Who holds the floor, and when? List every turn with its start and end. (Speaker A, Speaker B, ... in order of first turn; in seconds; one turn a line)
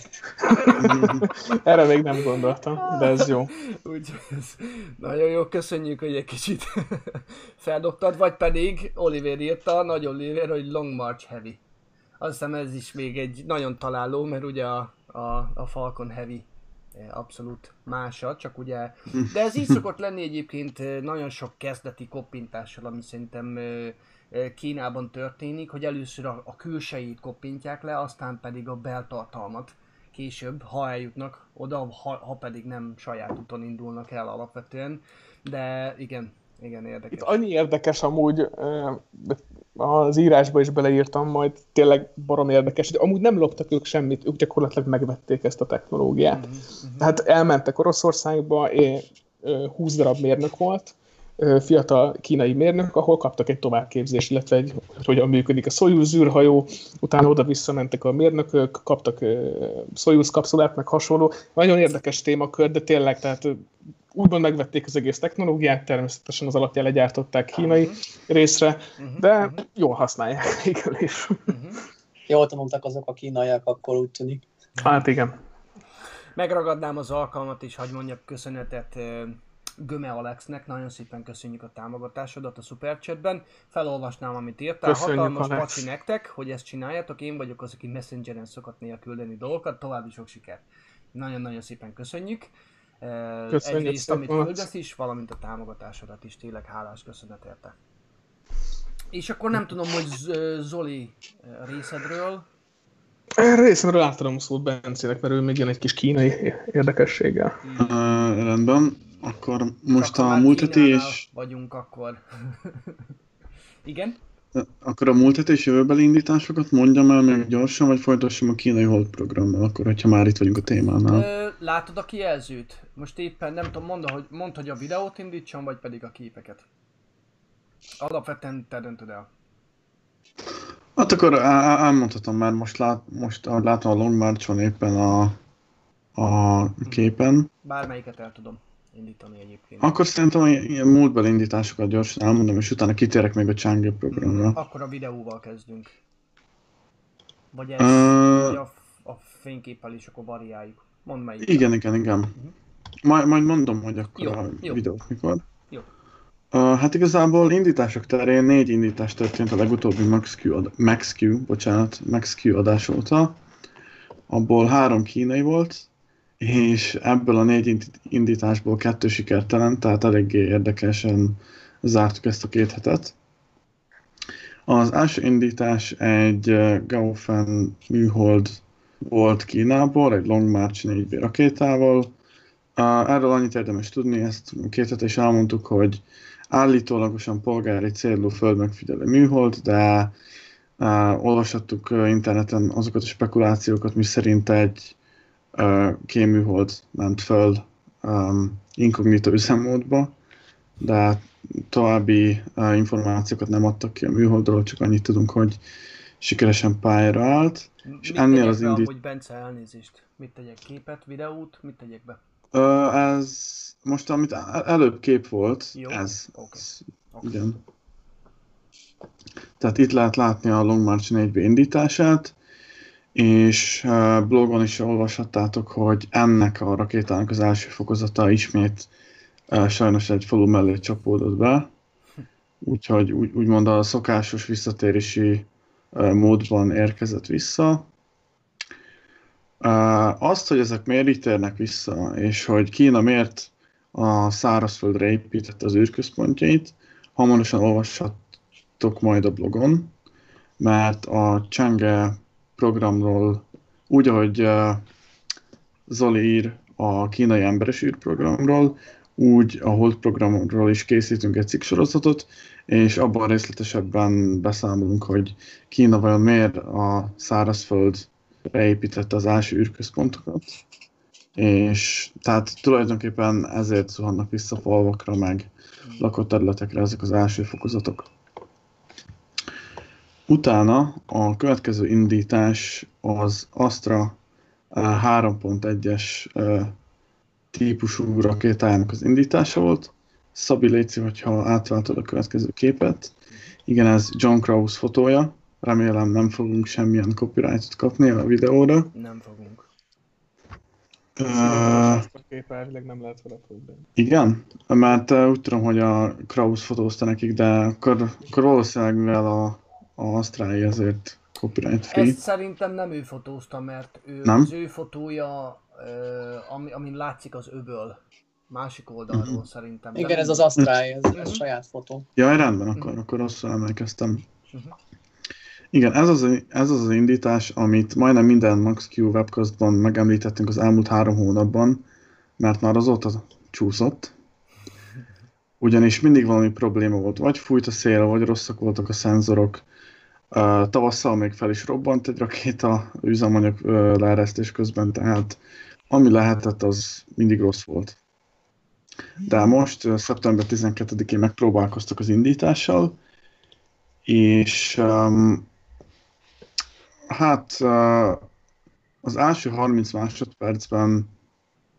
Speaker A: 0.5-1.0
Speaker B: 0.6-3.5
Speaker C: 0.8-1.2
Speaker A: 2.8-11.6
Speaker A: 12.2-37.4
Speaker C: 19.1-19.8
Speaker B: 37.1-46.5
Speaker A: 46.3-47.1
Speaker B: 47.0-71.5
Speaker A: 67.6-68.0
Speaker A: 69.0-69.6
Speaker A: 71.5-71.8
Speaker D: 72.3-74.4
Speaker B: 74.8-75.4
Speaker A: 76.4-92.5
Speaker B: 84.8-85.8
Speaker A: 93.0-97.7
Speaker B: 93.5-94.7
Speaker A: 99.1-102.5
Speaker B: 103.4-107.6
Speaker A: 107.6-108.3
Speaker C: 107.8-111.2
Speaker A: 110.0-113.0
Speaker A: 113.8-114.2
Speaker C: 114.5-121.3
Speaker A: 121.1-126.7
Speaker A: 128.0-129.3
Speaker C: 131.0-135.4
Speaker C: 136.2-137.5
Speaker A: 136.8-140.0
Speaker C: 139.8-144.6
Speaker A: 144.1-145.9
Speaker A: 147.5-151.7
Speaker C: 147.8-148.6
Speaker C: 151.4-152.3
Speaker C: 153.0-155.4
Speaker A: 154.2-154.8
Speaker C: 156.5-163.4
Speaker C: 164.3-165.9
Speaker C: 166.4-173.2
Speaker C: 174.7-182.2
Speaker C: 182.8-190.2
Speaker C: 190.8-194.9
Speaker C: 195.6-200.2
Speaker C: 200.8-205.6
Speaker C: 206.2-208.9
Speaker A: 207.8-212.2
Speaker C: 212.5-217.6
Speaker A: 215.7-217.4
Speaker C: 219.6-222.3
Speaker C: 223.2-228.9
Speaker C: 229.5-231.7
Speaker C: 232.6-237.9
Speaker C: 239.6-248.2
Speaker C: 248.8-249.9
Speaker C: 250.6-254.8
Speaker C: 255.9-270.6
Speaker C: 271.4-278.1
Speaker A: 275.8-276.1
Speaker C: 280.3-284.2
Speaker C: 284.7-286.8
Speaker C: 287.5-293.1
Speaker C: 293.7-298.9
Speaker A: 298.9-299.7
Speaker C: 301.2-302.1
Speaker B: 301.4-303.9
Speaker C: 304.0-312.2
Speaker A: 311.9-318.0
Speaker C: 314.2-314.5
Speaker A: 318.5-320.5
Speaker C: 319.1-319.4
Speaker D: 320.0-322.1
Speaker A: 321.1-321.4
Speaker C: 322.2-324.3
Speaker C: 325.7-331.9
Speaker C: 332.4-334.1
Speaker C: 335.6-339.6
Speaker C: 340.3-348.0
Speaker C: 349.2-353.0
Speaker C: 354.1-355.5
Speaker C: 357.1-358.3
Speaker C: 359.0-361.1